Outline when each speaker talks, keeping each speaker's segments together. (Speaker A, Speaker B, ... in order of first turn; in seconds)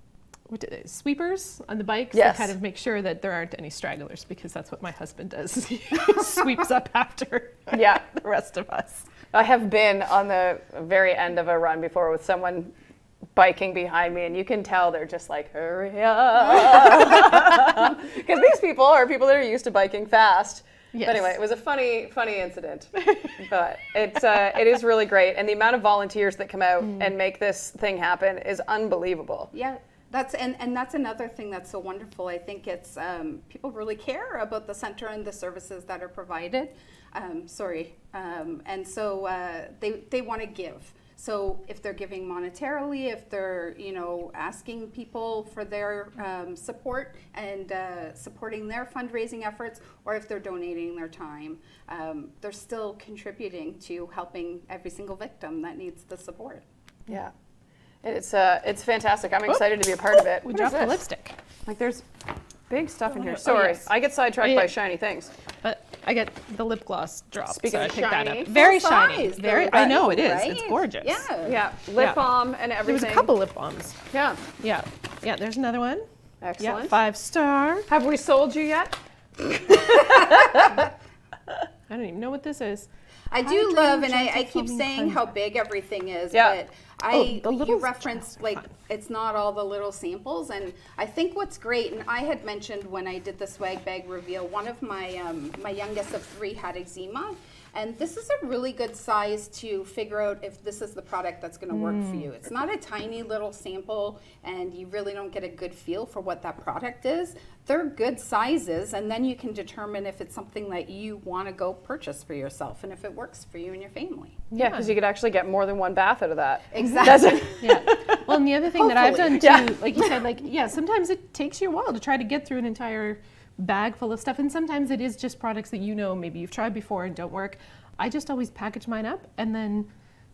Speaker A: 0.5-9.1, 20.9-21.4, 23.0-23.3, 26.8-27.1, 60.1-61.4, 63.1-63.9, 64.4-64.7, 65.6-71.2, 72.0-72.2, 72.8-74.0, 74.5-76.0, 76.6-77.9, 81.9-82.9, 83.4-85.3, 87.1-88.7, 101.7-102.2, 114.5-114.9, 117.6-129.9
Speaker B: 2.1-2.5, 7.7-8.0, 9.3-12.7, 13.3-29.5, 58.0-61.0, 61.6-62.1, 62.7-65.3, 67.5-68.2, 71.4-73.3, 74.1-74.4, 76.4-76.9, 77.9-80.9, 114.5-119.8
Speaker C: 29.5-56.6, 67.8-71.6, 83.3-114.4, 116.7-117.5